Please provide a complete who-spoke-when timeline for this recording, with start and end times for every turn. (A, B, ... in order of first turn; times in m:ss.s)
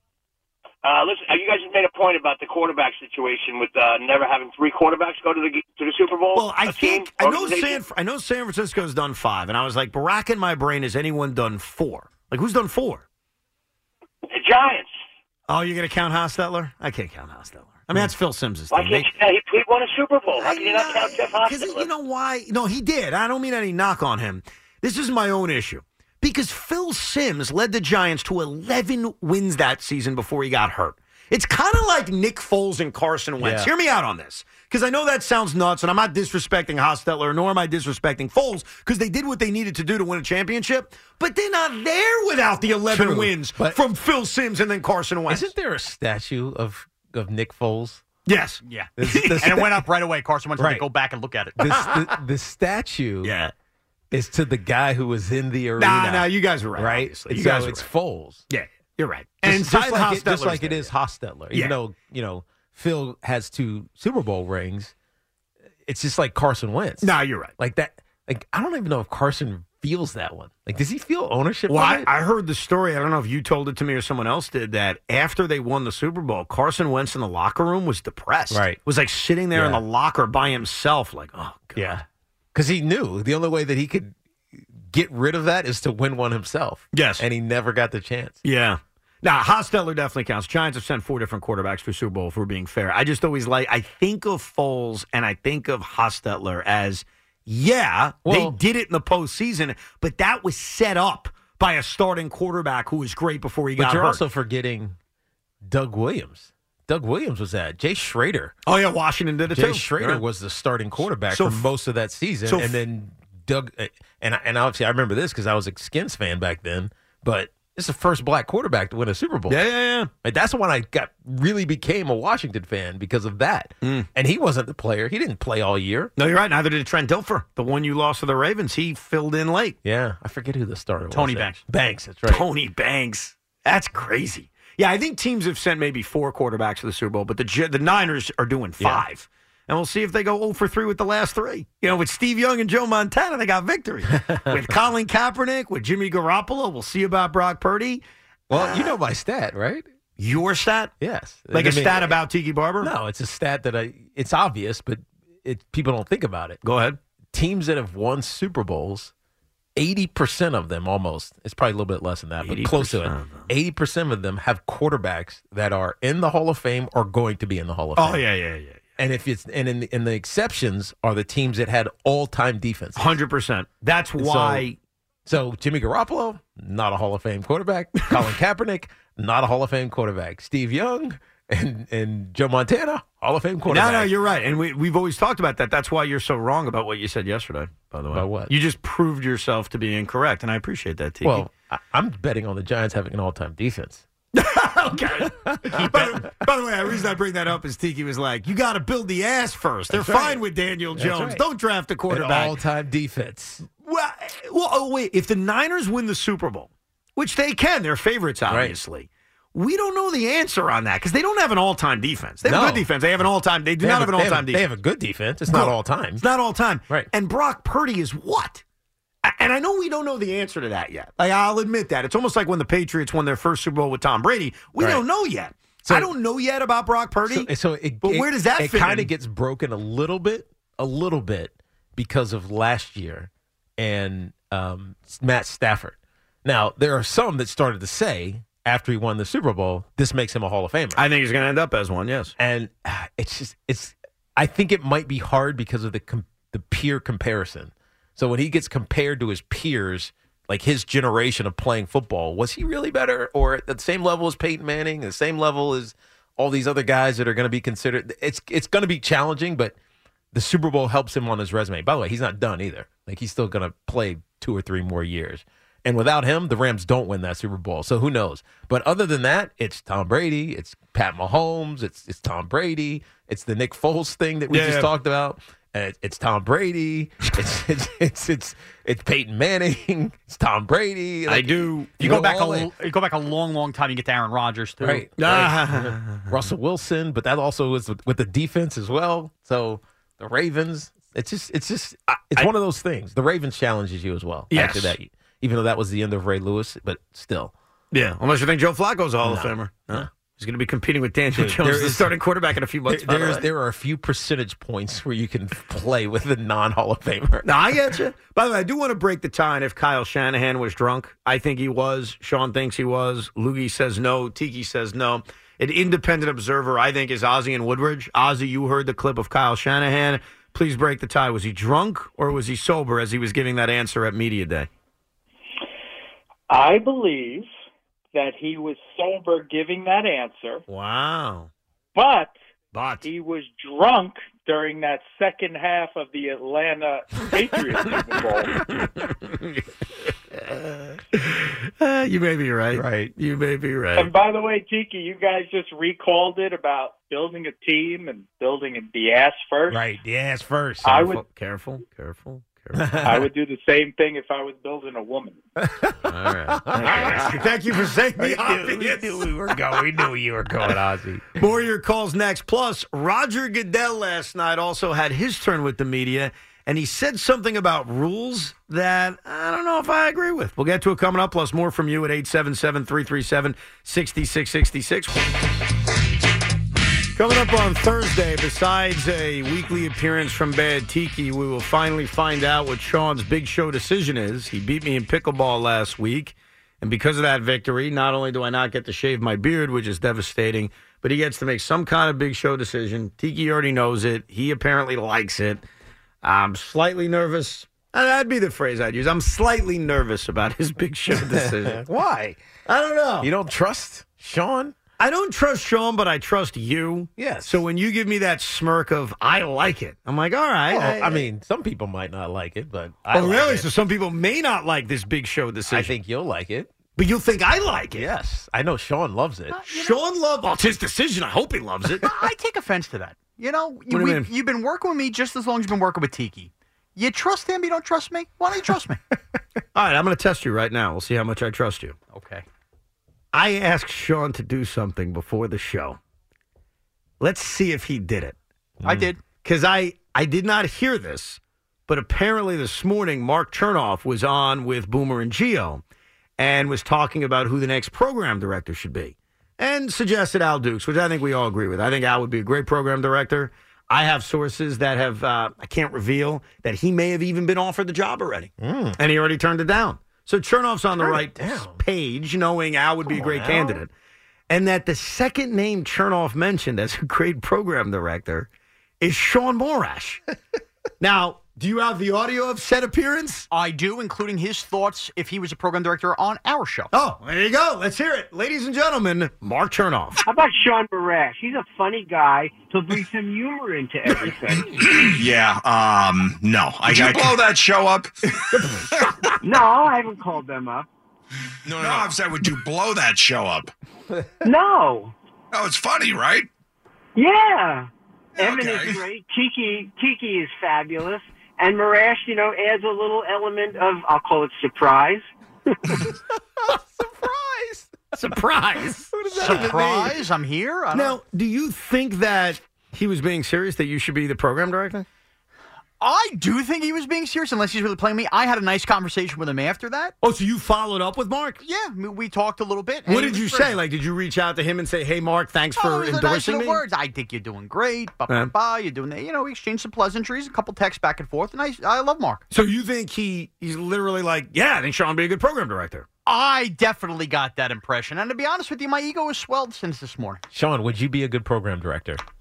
0:00.8-0:07.8 A
0:06.4-0:13.0 B
0:14.3-0:14.9 A
0:15.5-0:19.1 B
0:18.7-0:21.9 A
0:20.4-0:45.5 B
0:33.4-0:33.7 C
0:42.9-0:43.8 C
0:45.3-0:48.0 C
0:48.3-0:49.8 B
0:48.6-0:51.6 D
0:49.0-0:49.7 C
0:50.6-0:50.8 C
0:51.6-0:53.4 C
0:53.2-0:53.5 B
0:54.1-0:58.4 C
0:55.8-0:57.9 B
0:58.5-1:00.9 B
0:59.4-1:04.9 C
1:05.8-1:12.1 C
1:07.0-1:07.5 B
1:11.7-1:22.0 B
1:18.5-1:18.8 C
1:19.5-1:19.8 C
1:21.8-1:28.4 C
1:26.9-1:27.2 B
1:28.4-1:44.2 B
1:38.2-1:38.6 C
1:43.8-1:45.0 C
1:45.6-1:48.6 C
1:48.7-1:50.2 B
1:49.5-1:59.6 C
1:51.2-1:51.7 B
1:52.5-1:52.8 B
1:59.5-2:00.1 B
2:00.2-2:06.1 C
2:03.8-2:04.1 B
2:06.2-2:09.8 B
2:09.8-2:12.4 C
2:11.1-2:11.6 D
2:12.3-2:28.9 B
2:18.8-2:19.0 C
2:24.1-2:24.7 C
2:28.5-2:29.9 C
2:30.2-2:30.9 B
2:31.0-2:32.2 C
2:31.5-2:32.9 B
2:32.8-2:36.6 C
2:36.6-2:37.0 B
2:37.3-2:39.1 C
2:39.8-2:48.2 C
2:42.4-2:43.5 B
2:48.0-2:48.9 B
2:49.0-2:53.2 C
2:53.0-2:54.8 B
2:54.2-2:54.7 C
2:55.3-3:04.2 C
3:03.7-3:11.5 B
3:08.1-3:08.5 C
3:11.2-3:14.0 C
3:14.3-3:22.6 B
3:15.2-3:16.2 C
3:19.9-3:21.4 C
3:22.1-3:23.6 C
3:23.8-3:34.6 B
3:28.5-3:28.8 C
3:32.4-3:32.9 C
3:33.8-3:36.2 C
3:35.5-3:38.6 B
3:39.2-3:47.5 B
3:44.8-3:45.0 C
3:45.9-3:46.1 C
3:47.3-4:01.0 C
3:48.0-3:49.1 B
4:01.0-4:02.3 B
4:02.4-4:19.8 C
4:20.3-4:42.7 C
4:34.5-4:34.9 B
4:41.3-4:42.3 B
4:42.0-4:45.1 D
4:44.8-4:57.5 C
4:45.2-4:46.3 B
4:52.1-4:52.5 B
4:54.5-4:55.0 B
4:57.9-5:03.5 B
4:59.2-5:00.1 C
5:01.3-5:02.1 C
5:02.9-5:07.5 C
5:07.4-5:24.7 B
5:26.5-5:27.5 E
5:28.1-5:30.6 E
5:30.7-5:31.5 B
5:32.0-5:32.4 E
5:32.7-5:33.1 B
5:33.0-5:38.6 E
5:38.8-5:39.6 B
5:41.1-5:44.1 B
5:42.7-5:43.1 C
5:44.0-5:49.8 E
5:49.7-5:51.1 C
5:50.8-5:51.2 E
5:51.0-5:53.1 B
5:52.8-5:53.3 C
5:53.0-5:55.4 E
5:55.6-5:57.5 C
5:56.1-5:59.6 B
5:58.2-6:01.4 C
6:01.4-6:15.3 B
6:17.1-6:35.6 B
6:36.2-6:41.8 B
6:41.1-6:42.4 C
6:42.7-6:43.3 B
6:43.2-6:44.8 C
6:45.0-6:51.3 B
6:47.2-6:47.6 C
6:50.7-6:53.7 C
6:53.1-6:55.9 B
6:55.7-6:56.7 C
6:57.0-6:58.1 B
6:58.0-6:59.6 C
6:59.5-7:00.0 D
6:59.6-7:02.1 B
7:02.0-7:09.0 D
7:03.9-7:04.3 B
7:09.7-7:12.0 B
7:12.1-7:12.4 D
7:13.3-7:16.0 B
7:17.2-7:18.4 B
7:18.8-7:19.1 C
7:18.8-7:19.2 D
7:19.3-7:25.8 B
7:26.4-7:43.9 B
7:38.6-7:39.0 C
7:41.0-7:41.8 C
7:43.1-7:43.8 C
7:44.5-7:48.5 B
7:49.0-7:50.2 B
7:51.0-7:53.5 B
7:53.5-7:56.9 D
7:56.9-8:00.2 B
8:00.2-8:04.8 F
8:04.8-8:09.1 G
8:06.9-8:07.3 B
8:09.4-8:10.9 F
8:11.7-8:12.0 C
8:11.7-8:13.7 G
8:14.4-8:15.1 F
8:15.5-8:16.5 G
8:17.2-8:25.3 F
8:18.4-8:19.0 G
8:26.6-8:28.1 C
8:28.1-8:30.1 B
8:29.1-8:30.1 C
8:29.3-8:31.2 D
8:30.9-8:35.1 B
8:36.0-8:40.2 D
8:40.2-8:41.6 B
8:41.6-8:43.8 D
8:43.1-8:46.8 B
8:45.8-8:52.4 D
8:48.3-8:48.5 B
8:52.5-8:56.1 B
8:56.3-9:00.4 D
9:00.5-9:02.2 C